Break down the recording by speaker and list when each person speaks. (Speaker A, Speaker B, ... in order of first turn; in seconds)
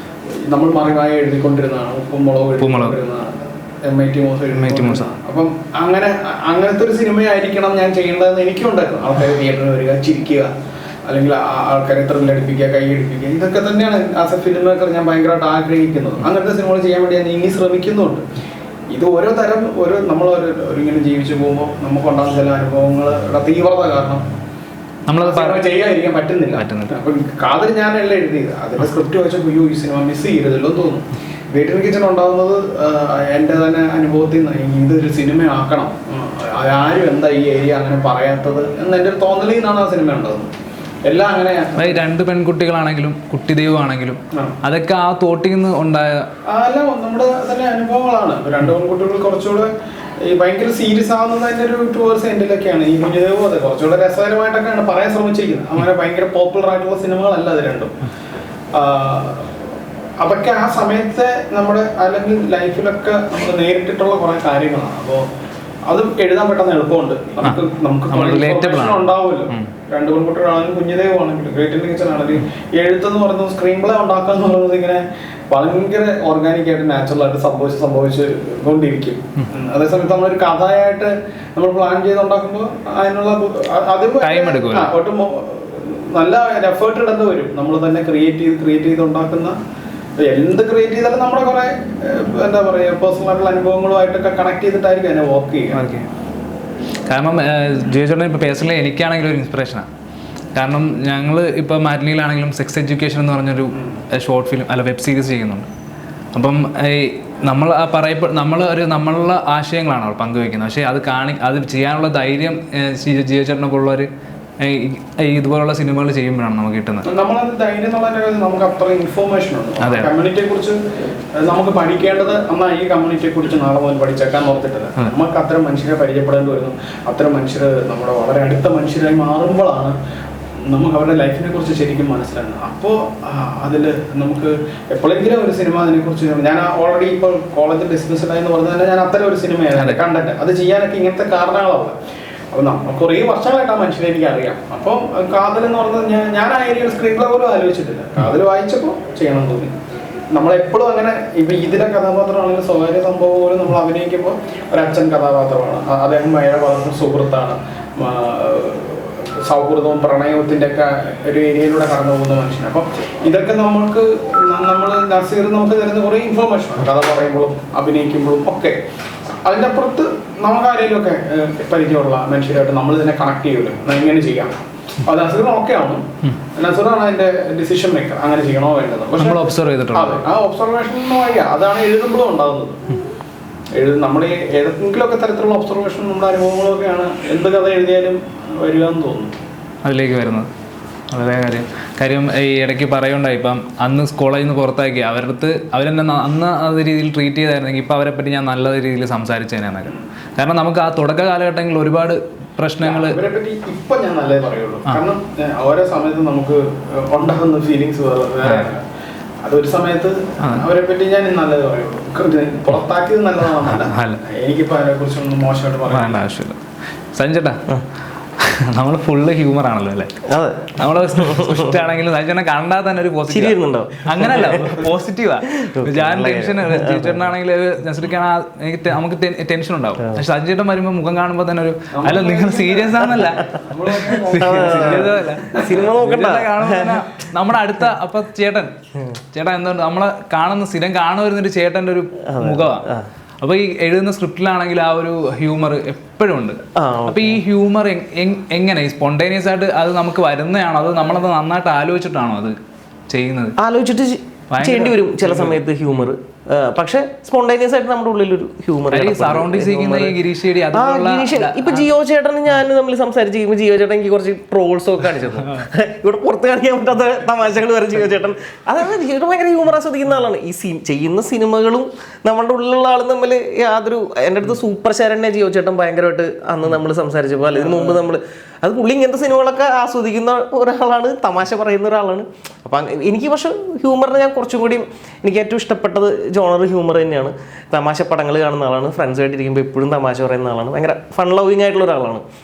Speaker A: 0.3-10.5, 11.1-18.2, 18.9-24.3, 25.2-40.5, 41.1-42.0, 46.5-49.7, 50.2-58.0, 58.7-59.5, 60.2-65.3, 65.9-89.6, 90.2-95.8, 103.7-104.0, 117.0-120.8, 121.4-130.0, 130.7-141.9, 142.5-149.8, 150.3-168.8, 169.4-182.8, 183.7-189.3, 202.8-208.8, 209.4-216.2, 231.9-235.7
Speaker B: 2.6-3.0, 4.5-5.1, 25.1-25.6, 26.6-26.9, 41.8-46.3, 67.4-69.7, 84.2-84.9, 95.7-96.1, 97.1-99.9, 100.5-105.7, 106.3-114.1, 114.6-117.1, 119.8-120.1, 139.8-140.0, 179.2-180.2, 189.8-190.5, 191.1-203.2, 208.4-208.7, 210.4-210.7, 213.7-214.2, 215.9-216.6, 217.1-217.6, 218.4-220.1, 220.8-238.7, 239.3-242.9, 243.4-252.6, 253.1-253.6, 254.5-255.6, 258.9-261.9
Speaker C: 220.3-221.7, 223.3-224.9, 225.5-227.3, 234.3-237.1, 242.2-243.1, 246.8-247.4, 253.6-260.2, 260.7-292.2